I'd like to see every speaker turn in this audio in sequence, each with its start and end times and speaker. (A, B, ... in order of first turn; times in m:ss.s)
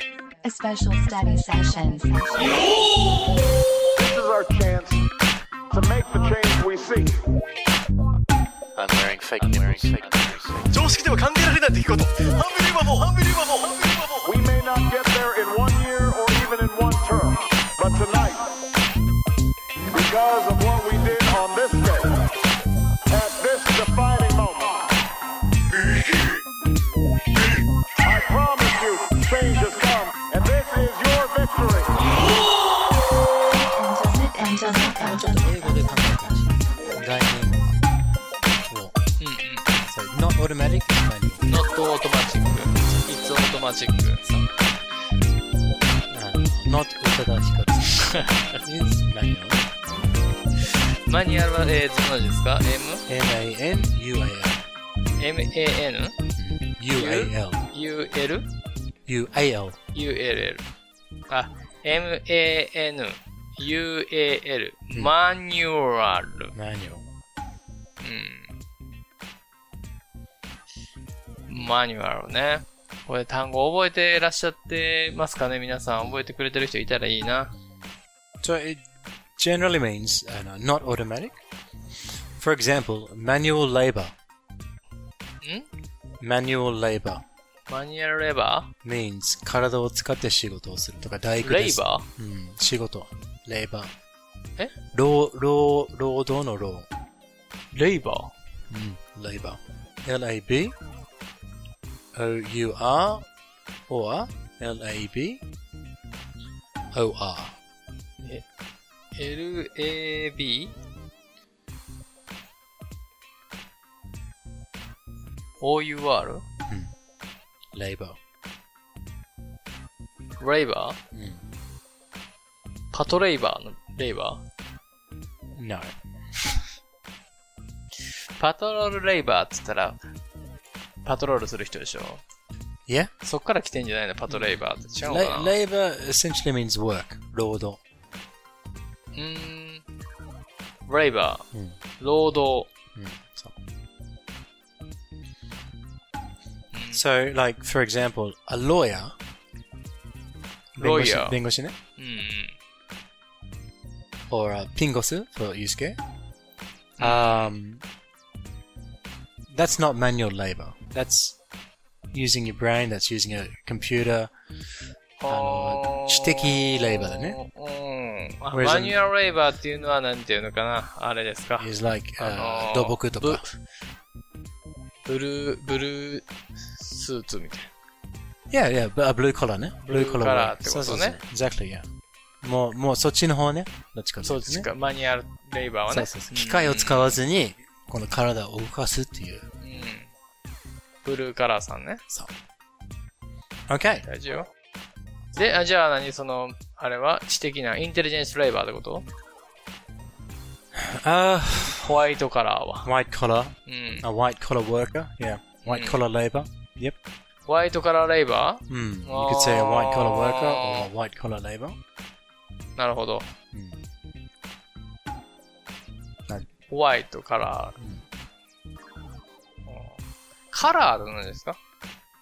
0:00.4-0:02.6 A
0:04.0-0:05.1 B
0:05.7-0:07.2 B
0:08.8-0:14.2 C
0:09.4-0:09.9 D
0:14.2-0:18.5 B
0:19.9-0:22.3 B
0:23.1-0:24.9 B
0:28.0-0:32.1 B
0:33.5-0:37.0 A
0:34.8-0:37.7 D
0:38.7-0:39.0 D
0:39.2-0:39.7 E
0:39.8-0:41.4 D
0:41.4-0:44.5 E
0:46.1-0:49.6 D
0:51.1-0:53.0 E
0:53.1-0:54.7 D
0:55.2-0:56.2 E
0:56.4-0:57.6 D
0:56.9-0:58.5 E
0:59.1-0:59.8 D
0:59.9-1:00.6 E
1:01.3-1:06.6 E
1:06.6-1:07.1 D
1:08.0-1:08.5 E
1:11.5-1:17.5 E
1:16.0-1:16.3 D
1:17.5-1:17.9 D
1:18.4-1:18.9 D
1:19.4-1:21.4 D
1:22.4-1:24.1 D
1:25.4-1:25.7 E
1:26.2-1:27.2 D
1:27.7-1:28.7 E
1:28.8-1:33.9 D
1:31.4-1:32.1 E
1:34.9-1:36.9 D
1:37.7-1:38.4 E
1:38.7-1:40.8 D
1:42.1-1:43.3 D
1:43.9-1:45.4 D
1:46.9-1:47.6 D
1:49.2-1:50.7 E
1:55.6-1:56.4 E
1:57.7-1:58.2 D
2:00.4-2:01.0 E
2:01.1-2:01.4 D
2:02.9-2:04.4 E
2:05.6-2:06.6 D
2:08.4-2:10.0 E
2:11.0-2:12.2 E
2:13.2-2:15.6 E
2:14.3-2:17.8 D
2:19.1-2:19.8 E
2:20.9-2:21.5 E
2:21.5-2:21.8 D
2:22.0-2:22.7 E
2:23.0-2:23.6 D
2:26.7-2:27.0 E
2:26.9-2:29.1 D
2:30.8-2:31.8 D
2:30.8-2:31.4 E
2:32.0-2:32.6 E
2:34.3-2:36.0 D
2:37.0-2:37.6 E
2:37.0-2:37.8 D
2:39.5-2:41.4 D
2:42.1-2:44.3 D
2:45.2-2:53.5 E
2:45.3-2:47.4 D
2:48.5-2:49.0 D
2:51.6-2:53.4 D
2:55.1-2:57.7 E
2:58.5-3:01.9 D
2:59.8-3:01.2 E
3:02.4-3:04.7 D
3:04.2-3:07.2 E
3:05.9-3:09.4 D
3:09.6-3:10.1 E
3:11.0-3:12.0 E
3:13.7-3:14.1 D
3:14.1-3:14.5 E
3:15.4-3:19.1 E
3:20.7-3:22.0 D
3:21.8-3:22.9 E
3:22.8-3:27.0 D
3:23.7-3:24.1 E
3:25.6-3:26.0 E
3:27.5-3:30.9 E
3:28.7-3:31.8 D
3:32.8-3:33.3 E
3:33.5-3:33.8 D
3:36.7-3:37.8 E
3:39.7-3:40.0 E
3:40.5-3:41.6 E